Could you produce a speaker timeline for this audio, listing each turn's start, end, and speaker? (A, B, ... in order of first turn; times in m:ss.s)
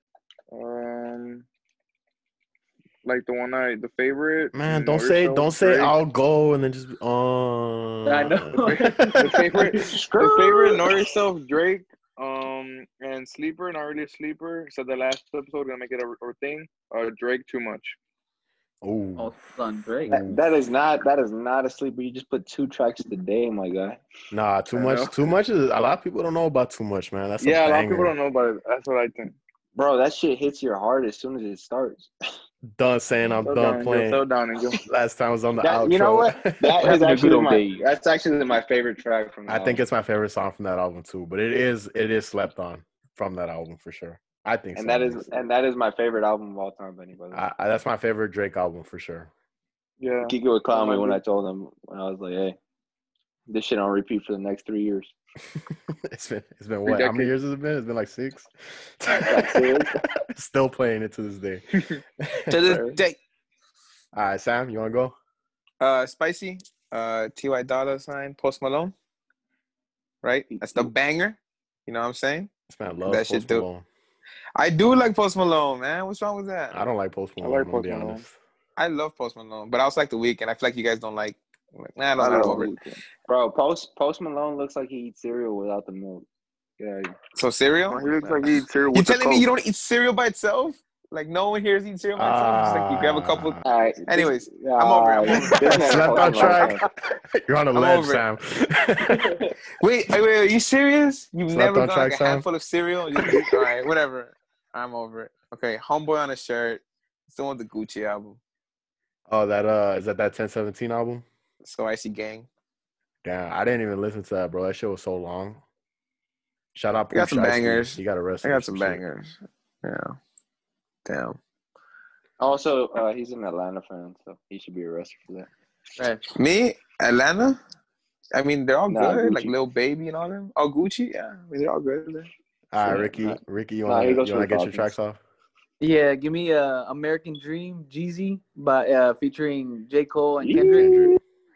0:00.5-0:01.4 A
0:03.0-0:05.9 A
0:04.5-0:09.7 B
0:08.0-0:10.8 C
0:08.7-0:18.0 A
0:18.8-0:19.3 B
0:19.2-0:20.2 C
0:20.1-0:20.5 B
0:20.1-0:24.0 D
0:24.3-0:28.1 B
0:24.7-0:25.2 A
0:27.4-0:29.4 A
0:29.7-0:32.1 D
0:32.8-0:34.2 B
0:33.4-0:34.8 A
0:34.8-0:37.0 B
0:35.6-0:39.8 D
0:36.8-0:37.8 C
0:39.5-0:45.3 B
0:44.7-0:47.4 D
0:47.3-0:49.3 B
0:50.0-0:51.2 A
0:50.3-0:52.6 D
0:53.5-0:55.1 D
0:55.7-1:02.9 B
0:56.8-0:57.3 A
0:59.1-1:00.0 D
1:02.5-1:03.0 A
1:04.1-1:05.1 B
1:05.8-1:08.9 E
1:10.2-1:12.5 E
1:10.5-1:10.9 D
1:12.7-1:13.8 B
1:13.0-1:13.6 E
1:14.6-1:16.8 E
1:16.7-1:18.4 B
1:17.4-1:18.2 A
1:18.8-1:22.7 E
1:22.2-1:26.2 D
1:26.8-1:27.2 D
1:27.4-1:36.6 E
1:27.9-1:29.5 A
1:32.2-1:33.6 B
1:33.6-1:36.8 D
1:35.7-1:36.8 B
1:37.4-1:39.4 B
1:37.7-1:38.2 E
1:39.8-1:48.4 E
1:41.5-1:42.4 B
1:49.3-1:51.2 B
1:51.6-1:52.5 E
1:53.2-1:55.6 B
1:56.7-1:59.0 B
1:57.1-2:00.2 E
2:01.0-2:01.4 E
2:02.4-2:05.5 D
2:06.0-2:06.3 C
2:06.4-2:07.6 E
2:08.3-2:12.3 E
2:08.9-2:09.5 D
2:12.7-2:15.2 B
2:13.9-2:14.9 D
2:15.8-2:20.9 C
2:20.4-2:21.2 D
2:20.8-2:21.2 B